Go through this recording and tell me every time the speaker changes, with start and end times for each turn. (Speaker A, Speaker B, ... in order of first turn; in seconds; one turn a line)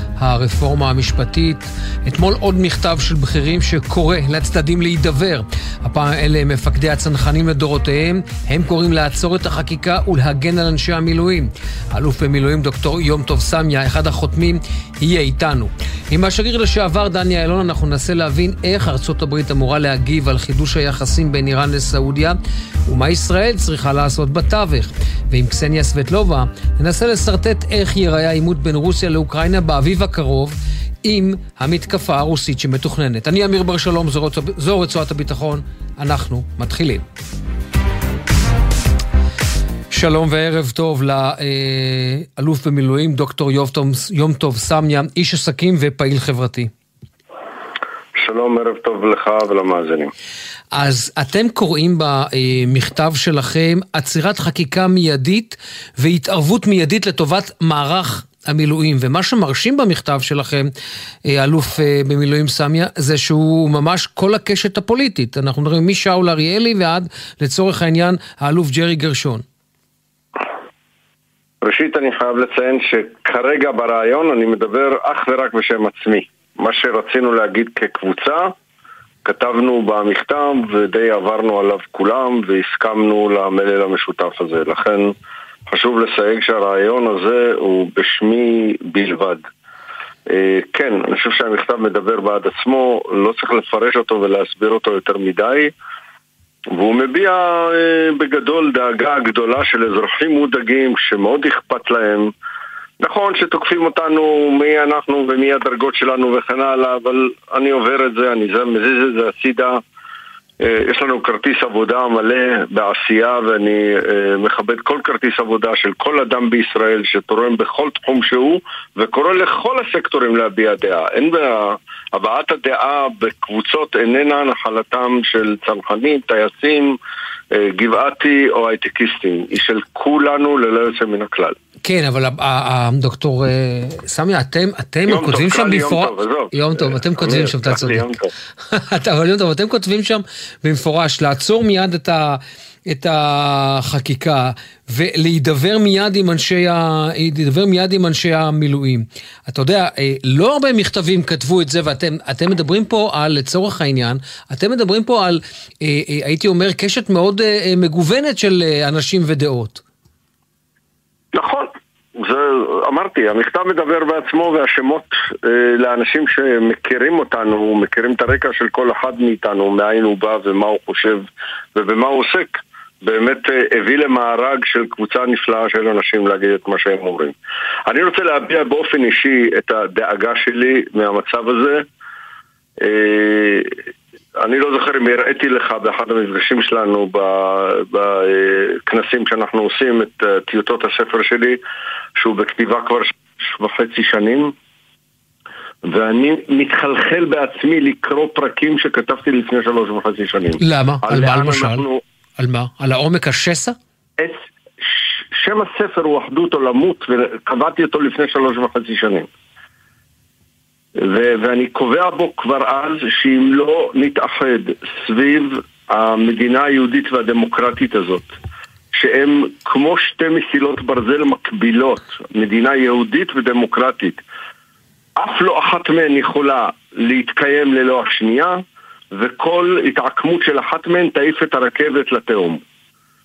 Speaker A: 0.2-37.0
Speaker A: 39.9-46.7
Speaker B: 48.2-50.1
Speaker A: 50.7-60.7
Speaker A: 61.3-69.4
Speaker B: 71.6-78.5
Speaker B: 79.2-85.2
Speaker B: 85.7-89.5
Speaker B: 90.3-95.7
Speaker B: 96.7-102.3
Speaker B: 103.0-109.8
Speaker B: 110.6-127.0
Speaker B: 127.5-131.6
Speaker A: 131.8-138.1
Speaker B: 135.1-138.3
Speaker A: 138.7-159.8
Speaker B: 161.3-177.3
Speaker B: 177.9-181.9
Speaker B: 182.8-183.8
Speaker B: 184.4-191.6
Speaker B: 192.2-194.6
Speaker B: 195.8-202.0
Speaker A: 200.6-201.9
Speaker A: 202.4-203.8
Speaker B: 204.2-209.3
Speaker B: 211.0-218.3
Speaker B: 218.9-224.2
Speaker B: 225.2-232.6